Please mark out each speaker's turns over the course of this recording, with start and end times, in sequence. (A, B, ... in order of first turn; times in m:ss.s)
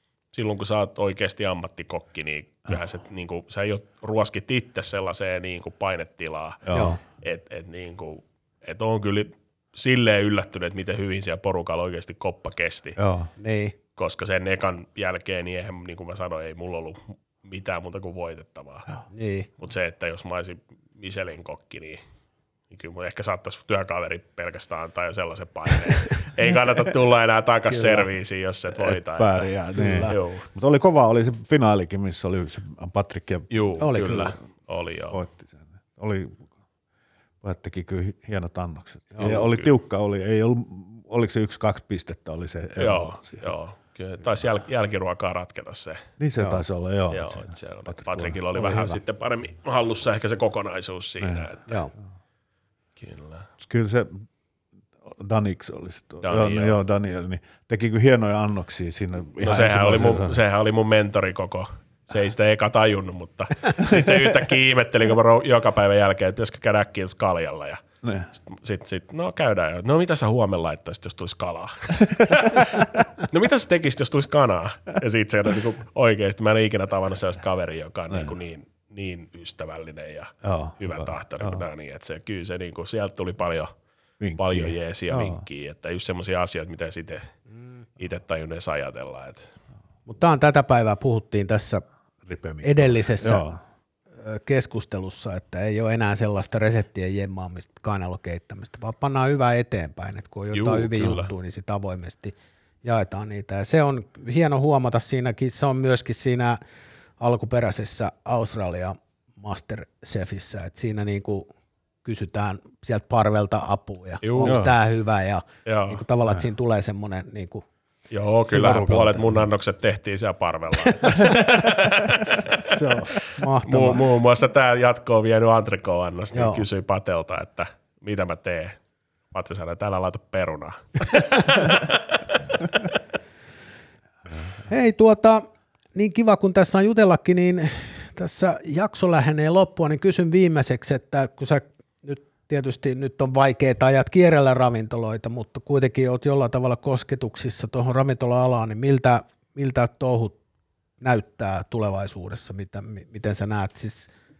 0:00.3-0:13.0 A
0:06.6-0:07.0 B
0:06.7-0:07.0 C
0:13.0-0:13.3 B
0:13.4-0:13.7 C
0:14.0-0:19.0 A
0:19.1-0:19.5 C
0:19.6-0:22.0 A
0:22.7-0:30.5 A
0:27.7-0:28.1 C
0:28.8-0:34.2 B
0:29.7-0:30.1 C
0:33.5-0:35.2 A
0:33.8-0:34.4 C
0:35.1-0:36.4 B
0:37.4-0:43.5 B
0:39.2-0:39.7 A
0:42.8-0:46.0 A
0:46.2-0:48.4 B
0:47.1-0:51.8 A
0:48.6-0:49.0 C
0:51.2-0:51.5 B
0:51.7-0:51.9 C
0:53.0-0:53.5 A
0:53.6-0:54.3 B
0:55.0-1:00.4 B
0:56.2-0:56.8 A
0:59.4-1:07.8 A
1:03.8-1:04.3 B
1:08.0-1:08.3 B
1:08.4-1:23.7 A
1:12.3-1:12.8 B
1:20.4-1:21.6 B
1:24.2-1:25.4 B
1:24.4-1:27.3 A
1:28.0-1:29.5 A
1:30.1-1:31.8 C
1:32.2-1:33.6 B
1:32.6-1:33.4 C
1:34.2-1:46.6 C
1:40.5-1:41.3 A
1:47.2-1:51.5 C
1:52.0-1:57.6 C
1:54.2-1:54.6 A
1:54.4-1:54.7 B
1:55.6-1:56.0 A
1:58.1-2:08.8 A
1:58.5-1:59.4 B
2:00.9-2:01.5 C
2:02.4-2:04.1 C
2:06.3-2:06.6 C
2:09.3-2:13.0 A
2:14.6-2:30.4 C
2:31.0-2:34.1 C